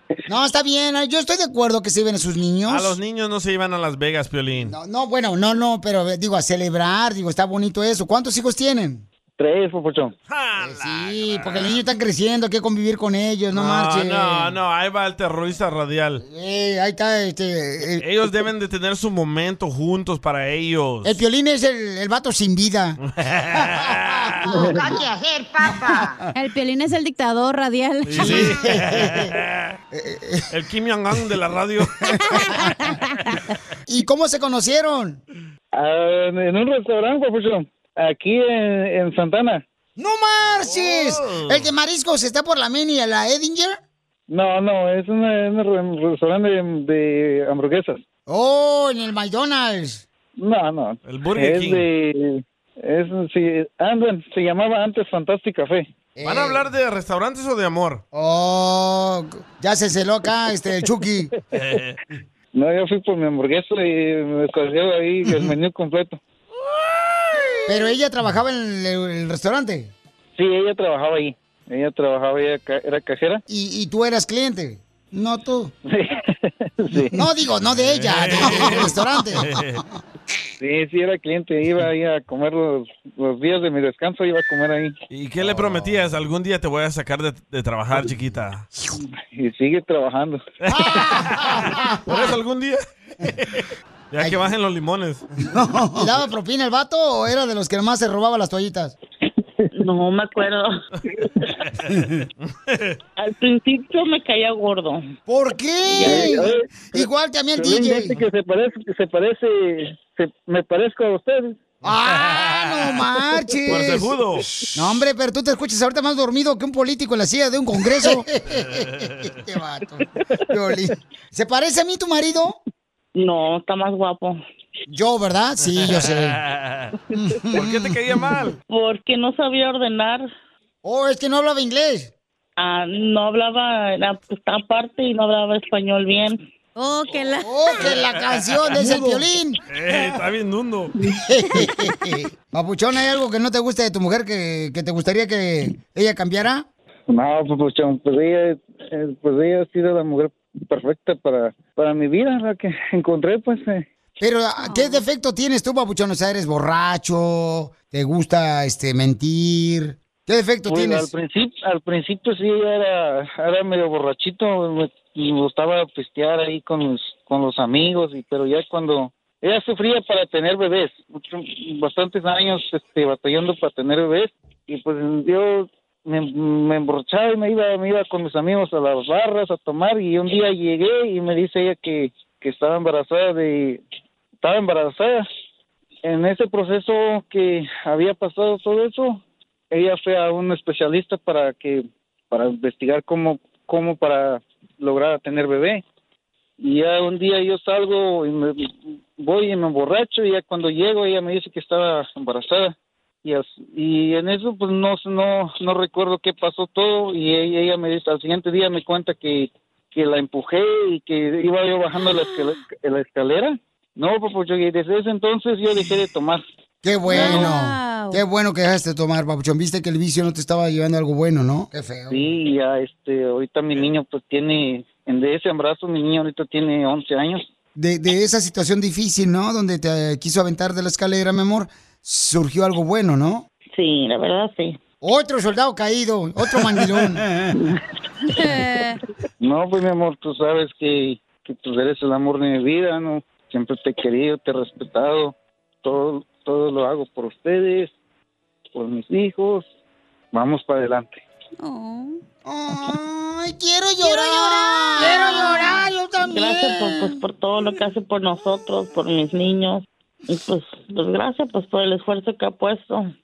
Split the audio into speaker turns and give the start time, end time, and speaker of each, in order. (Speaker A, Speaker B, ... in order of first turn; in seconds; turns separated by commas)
Speaker A: 0.3-3.0, Speaker B: 2.7-4.7, Speaker A: 4.6-9.0, Speaker C: 9.4-10.1, Speaker B: 10.3-11.8, Speaker A: 10.6-14.6, Speaker B: 13.5-16.2, Speaker A: 16.2-18.0, Speaker B: 18.0-21.2, Speaker A: 21.0-23.0, Speaker B: 23.1-24.6, Speaker A: 23.5-26.1, Speaker D: 26.3-28.5, Speaker B: 28.1-29.7, Speaker A: 28.1-29.3, Speaker A: 29.9-30.4, Speaker B: 30.5-32.5, Speaker A: 32.1-32.7, Speaker A: 33.9-35.2, Speaker C: 35.7-39.6, Speaker A: 40.0-43.8, Speaker B: 40.6-41.7, Speaker C: 44.3-48.0, Speaker A: 48.3-50.0, Speaker C: 50.4-55.9, Speaker B: 51.0-51.9, Speaker A: 56.2-56.6, Speaker B: 56.2-58.0, Speaker A: 58.1-61.3, Speaker B: 61.5-62.0, Speaker C: 62.5-66.2, Speaker A: 67.7-69.9, Speaker C: 70.3-73.4, Speaker A: 73.5-75.7, Speaker C: 75.9-77.2, Speaker A: 77.1-79.6, Speaker B: 77.7-79.8, Speaker C: 80.6-84.9, Speaker B: 85.1-88.7, Speaker C: 89.0-90.4, Speaker B: 90.6-95.2, Speaker A: 90.7-92.4, Speaker A: 95.5-98.9, Speaker E: 99.8-100.8, Speaker B: 102.7-103.0, Speaker E: 103.2-105.0, Speaker A: 105.3-108.2, Speaker E: 105.9-106.5, Speaker C: 106.0-111.6, Speaker A: 111.8-114.1, Speaker B: 112.3-112.9, Speaker B: 113.7-114.6, Speaker A: 114.7-122.6, Speaker B: 118.6-119.3, Speaker E: 123.2-124.4, Speaker A: 124.9-126.4, Speaker B: 125.8-126.9, Speaker A: 127.1-128.1, Speaker B: 127.5-128.6, Speaker E: 128.7-130.3, Speaker A: 130.8-132.1, Speaker E: 132.6-136.4, Speaker D: 136.8-137.8, Speaker A: 137.4-139.6, Speaker B: 139.7-140.9, Speaker A: 141.2-146.7, Speaker C: 147.1-153.9, Speaker A: 154.2-161.1, Speaker D: 154.6-155.0, Speaker C: 160.7-183.8, Speaker C: 184.4-185.2, Speaker C: 186.0-189.2, Speaker C: 189.7-195.8, Speaker C: 196.6-216.4, Speaker A: 216.8-222.3, Speaker D: 217.1-218.2, Speaker C: 217.1-217.5, Speaker C: 222.1-227.4, Speaker A: 227.8-233.4, Speaker E: 233.7-234.8, Speaker A: 235.0-237.3, Speaker D: 238.2-239.0, Speaker C: 239.4-247.9, Speaker C: 248.7-249.7, Speaker C: 250.3-251.2, Speaker D: 251.6-252.2, Speaker A: 252.4-257.2, Speaker D: 254.0-255.8, Speaker E: 256.2-263.1